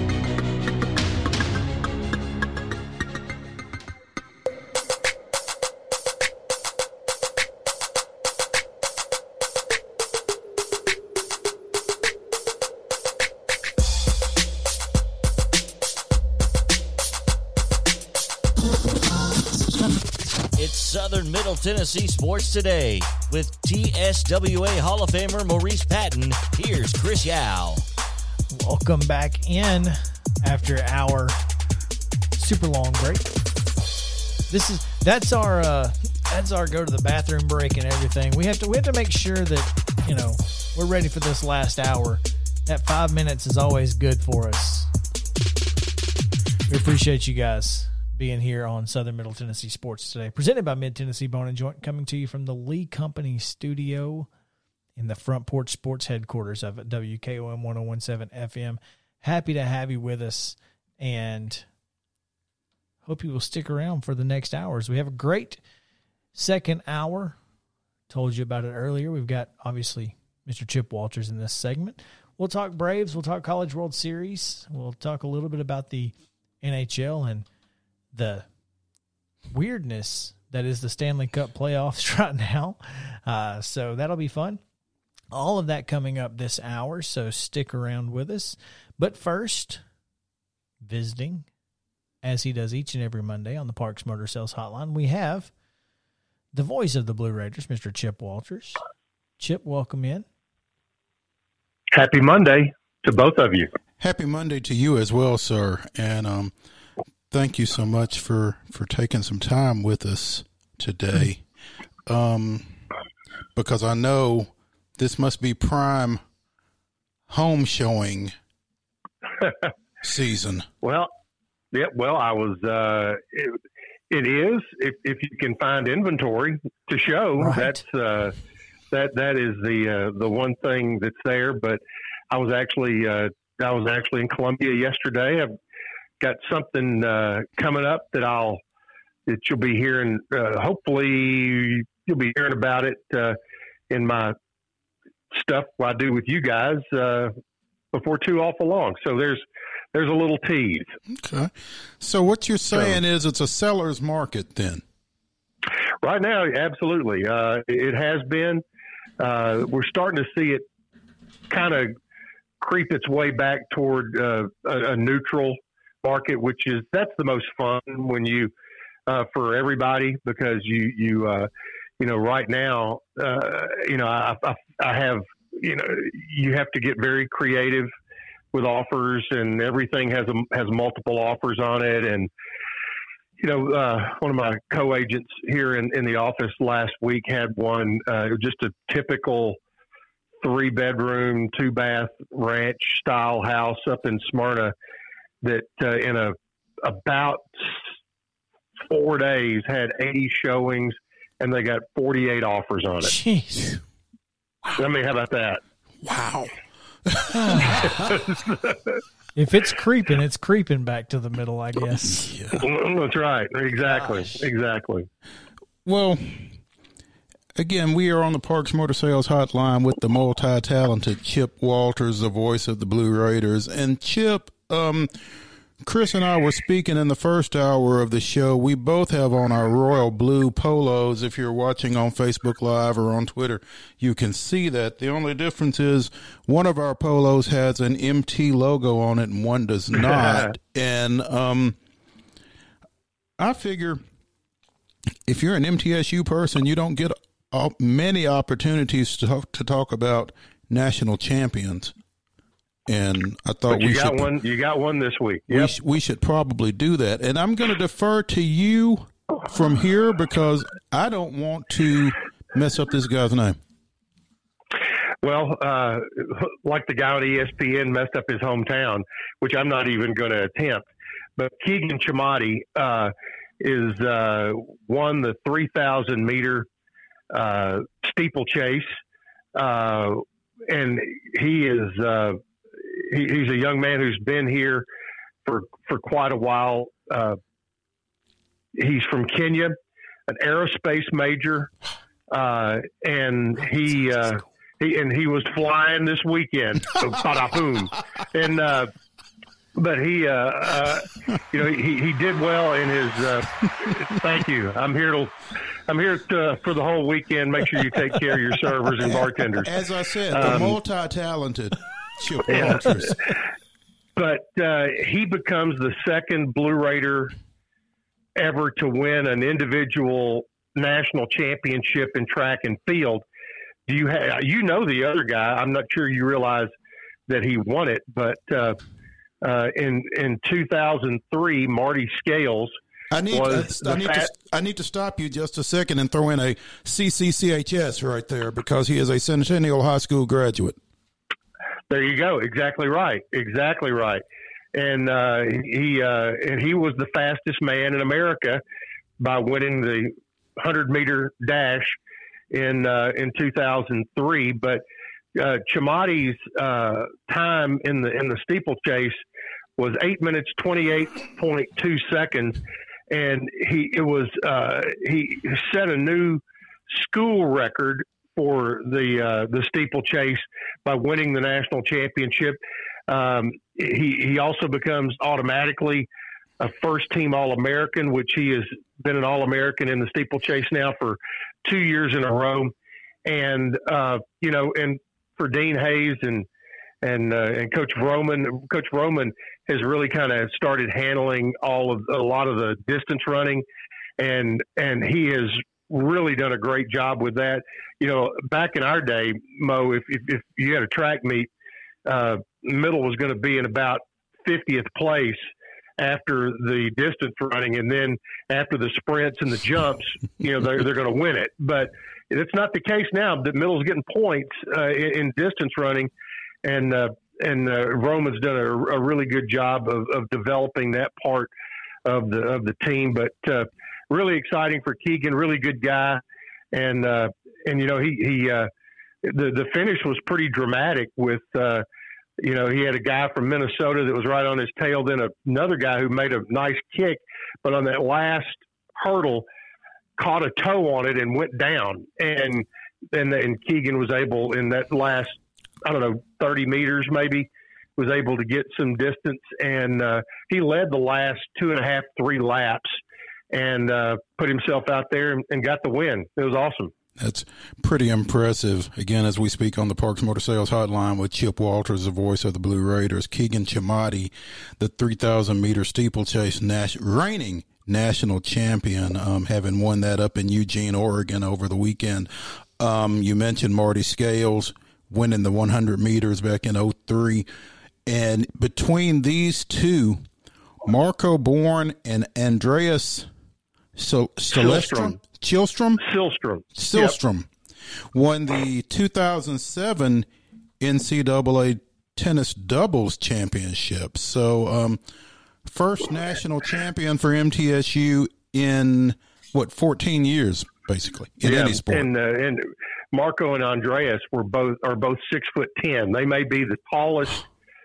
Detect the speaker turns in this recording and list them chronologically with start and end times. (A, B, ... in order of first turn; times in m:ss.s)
0:20.5-0:27.8 A
0:28.5-0:31.4 B
0:32.4-0:33.3 B
0:34.5-0:44.9 B
0:46.7-0:54.3 B
0:55.0-1:01.6 B
1:03.0-1:05.6 B
1:06.3-1:07.4 B
1:08.1-1:17.4 B
1:18.1-1:18.4 B
1:19.5-1:24.6 B
1:25.3-1:29.8 B
1:30.8-1:31.5 B
1:32.2-1:35.5 B
1:36.5-1:38.8 B
1:39.4-1:40.2 B
1:41.9-1:43.7 C
1:44.0-1:46.5 D
1:47.3-1:51.4 D
1:52.1-1:52.7 D
1:53.6-1:56.2 D
1:57.3-1:58.3 D
1:59.4-1:59.7 C
2:00.0-2:00.7 D
2:00.8-2:01.1 C
2:01.7-2:08.3 C
2:07.4-2:07.8 B
2:08.9-2:15.5 C
2:16.2-2:18.6 C
2:19.3-2:23.4 C
2:23.9-2:24.3 C
2:25.3-2:27.3 C
2:27.9-2:30.9 C
2:31.1-2:34.8 D
2:32.7-2:33.0 C
2:36.0-2:38.6 C
2:39.2-2:40.6 C
2:41.5-2:41.9 C
2:42.6-2:48.5 C
2:49.1-2:57.9 C
2:58.5-3:02.3 C
3:03.4-3:09.6 C
3:10.4-3:14.7 C
3:15.4-3:17.8 C
3:18.8-3:23.2 C
3:23.0-3:23.8 B
3:24.8-3:25.6 C
3:26.0-3:26.5 D
3:27.0-3:27.8 D
3:27.3-3:27.9 B
3:27.8-3:29.0 C
3:29.4-3:32.3 B
3:32.1-3:32.6 D
3:32.6-3:35.1 C
3:33.9-3:34.4 B
3:35.8-3:36.6 D
3:37.6-3:45.1 D
3:45.8-4:01.8 D
4:00.0-4:00.5 C
4:03.4-4:04.0 D
4:05.3-4:11.9 D
4:12.9-4:14.3 D
4:13.7-4:15.7 C
4:15.5-4:23.6 D
4:25.2-4:30.8 C
4:31.4-4:36.7 C
4:37.3-4:39.0 C
4:39.5-4:44.9 C
4:45.4-4:47.4 C
4:48.7-4:49.8 C
4:50.3-4:51.7 C
4:52.3-4:58.9 C
4:59.7-5:09.7 C
5:09.6-5:13.2 D
5:10.3-5:10.8 C
5:12.5-5:12.8 C
5:14.2-5:17.3 C
5:18.4-5:23.2 C
5:23.9-5:26.7 C
5:27.3-5:28.8 C
5:29.4-5:32.7 C
5:33.1-5:40.8 D
5:33.3-5:34.3 C
5:41.9-5:44.2 C
5:44.7-5:48.6 C
5:49.2-5:52.0 C
5:52.5-5:54.8 C
5:55.3-5:59.2 C
5:59.8-6:22.7 C
6:23.2-6:26.5 C
6:27.0-6:33.6 C
6:34.2-6:41.5 C
6:42.0-6:45.5 C
6:46.0-6:56.1 C
6:56.6-7:01.5 C
7:02.0-7:06.2 C
7:06.7-7:08.7 C
7:09.2-7:11.8 C
7:12.4-7:19.4 C
7:20.2-7:33.0 C
7:33.5-7:36.9 C
7:37.2-7:57.5 D
7:58.0-8:00.2 D
8:00.8-8:03.3 D
8:04.0-8:06.0 D
8:04.5-8:05.2 C
8:06.0-8:07.1 C
8:06.8-8:07.5 D
8:08.1-8:10.3 D
8:10.8-8:15.0 D
8:15.6-8:22.1 D
8:21.4-8:27.5 C